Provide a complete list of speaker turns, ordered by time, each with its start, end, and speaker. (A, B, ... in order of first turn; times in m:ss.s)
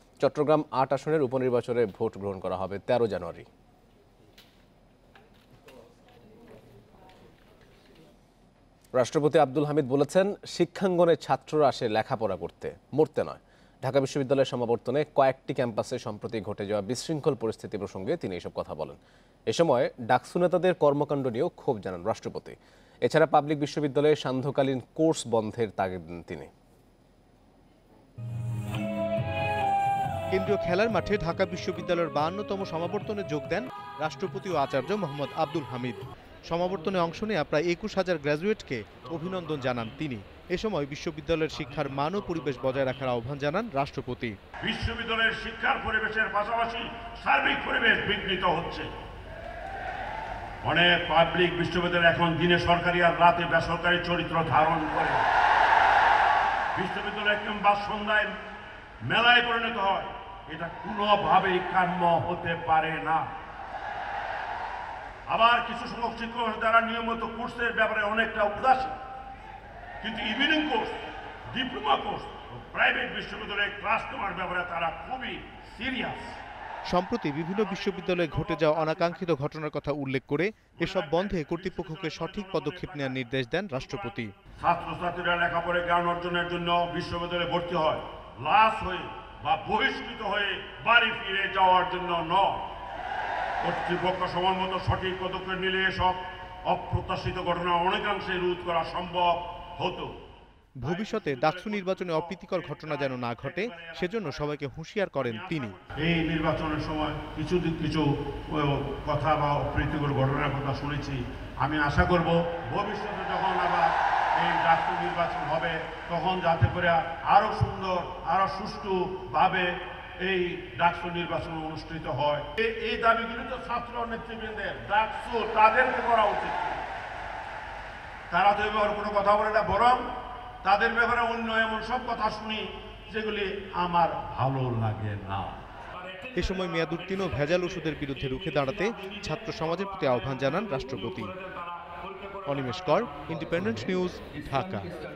0:00.2-0:03.5 A
0:09.0-0:19.0 A
0:19.5-0:26.5 A
0:30.3-0:44.4 B
0:44.6-0:48.9 C
0:50.6-0:55.2 C
0:56.8-0:58.4 C
0:59.1-1:03.3 C
1:05.3-1:09.0 C
1:10.0-1:11.0 C
1:11.5-1:16.4 C
1:16.9-1:24.3 B
1:17.5-1:19.4 C
1:20.8-1:23.2 C
1:23.8-1:32.7 C
1:33.6-1:40.1 C
1:40.8-1:45.8 B
1:40.8-1:44.5 C
1:45.2-2:06.8 C
2:08.3-2:10.0 C
2:10.6-2:15.6 C
2:16.4-2:21.3 B
2:22.5-2:24.9 B